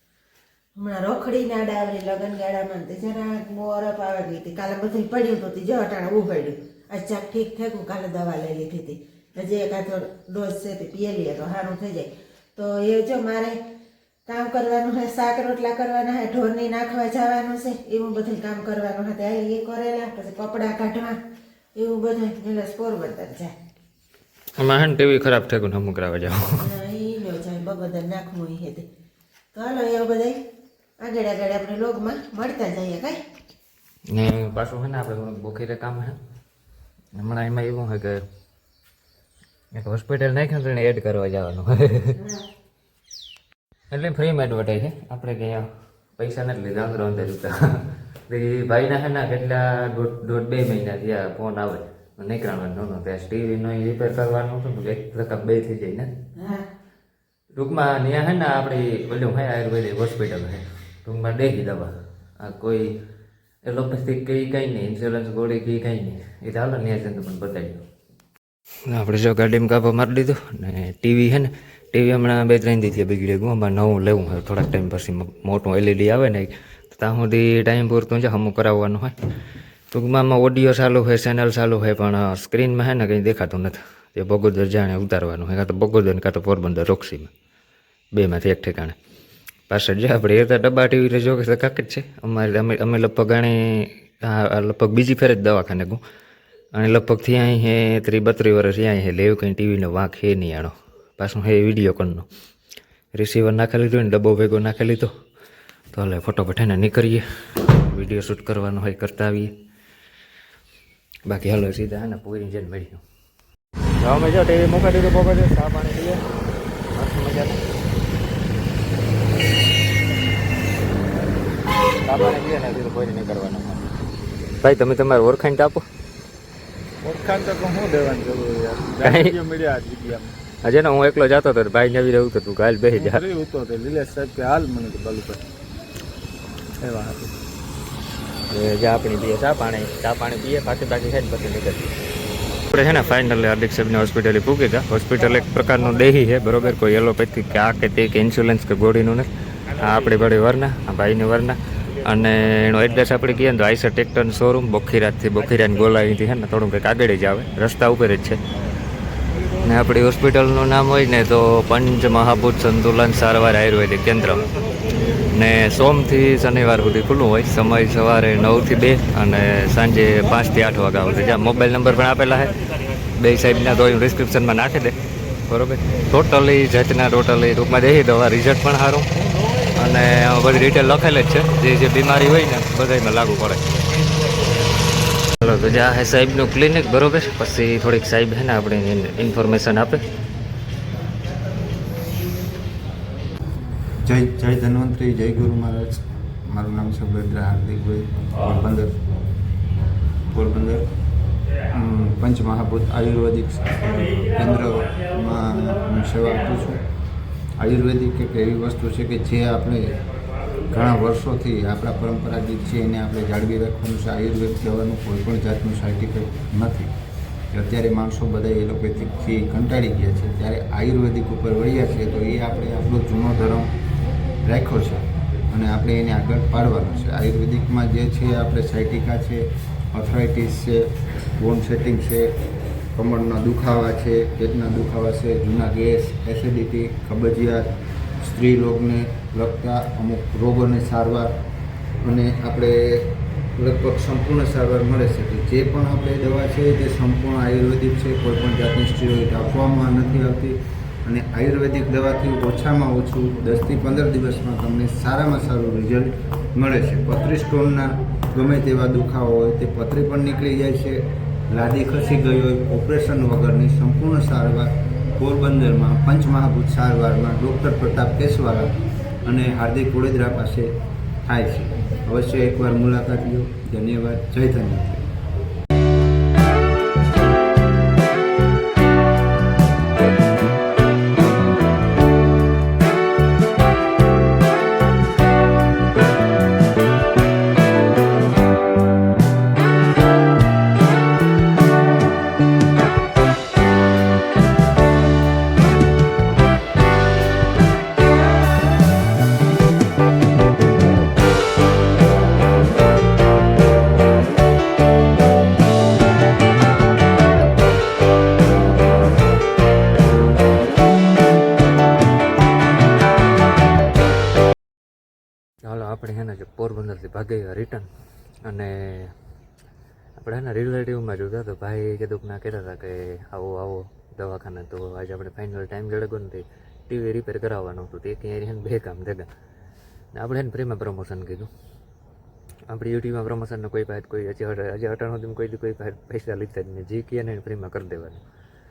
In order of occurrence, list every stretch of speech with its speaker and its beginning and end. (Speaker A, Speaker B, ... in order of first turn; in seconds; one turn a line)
Speaker A: 0.8-13.6
Speaker A: 14.3-21.2
Speaker A: 21.8-23.5
Speaker B: 24.6-26.5
Speaker A: 26.6-28.9
Speaker A: 29.5-30.4
Speaker A: 31.0-33.2
Speaker B: 34.1-36.2
Speaker B: 37.2-38.2
Speaker B: 39.8-42.2
Speaker A: 42.2-42.5
Speaker B: 43.9-45.7
Speaker B: 46.2-56.1
Speaker A: 56.4-56.7
Speaker B: 57.5-63.0
Speaker B: 63.7-67.8
Speaker B: 68.9-79.1
Speaker B: 79.9-87.3
Speaker B: 88.2-89.0
Speaker B: 89.7-96.0
Speaker B: 96.7-102.3
Speaker B: 103.1-105.1
Speaker B: 105.9-109.5
Speaker B: 111.3-113.0
Speaker B: 114.0-116.2
Speaker B: 116.9-117.6
Speaker B: 122.0-123.9
Speaker B: 124.6-125.8
Speaker C: 127.0-130.3
Speaker B: 129.0-129.4
Speaker B: 130.6-133.2
Speaker C: 132.9-135.4
Speaker C: 136.8-137.3
Speaker B: 138.5-142.0
Speaker B: 142.7-158.4
Speaker B: 159.6-164.5
Speaker B: 165.3-172.5
Speaker B: 173.2-174.9
Speaker B: 175.5-179.1
Speaker B: 179.8-183.7
Speaker B: 185.4-190.1
Speaker D: 194.0-198.9
Speaker D: 200.3-200.8
Speaker D: 201.7-206.8
Speaker D: 207.6-210.0
Speaker D: 210.7-216.9
Speaker D: 217.5-223.7
Speaker D: 224.4-230.9
Speaker D: 231.4-232.3
Speaker D: 232.9-237.7
Speaker D: 238.2-241.3
Speaker D: 242.0-270.7
Speaker D: 271.3-275.1
Speaker B: 315.6-317.9
Speaker B: 318.4-319.1
Speaker B: 320.2-329.3
Speaker B: 330.1-331.5
Speaker B: 332.7-338.2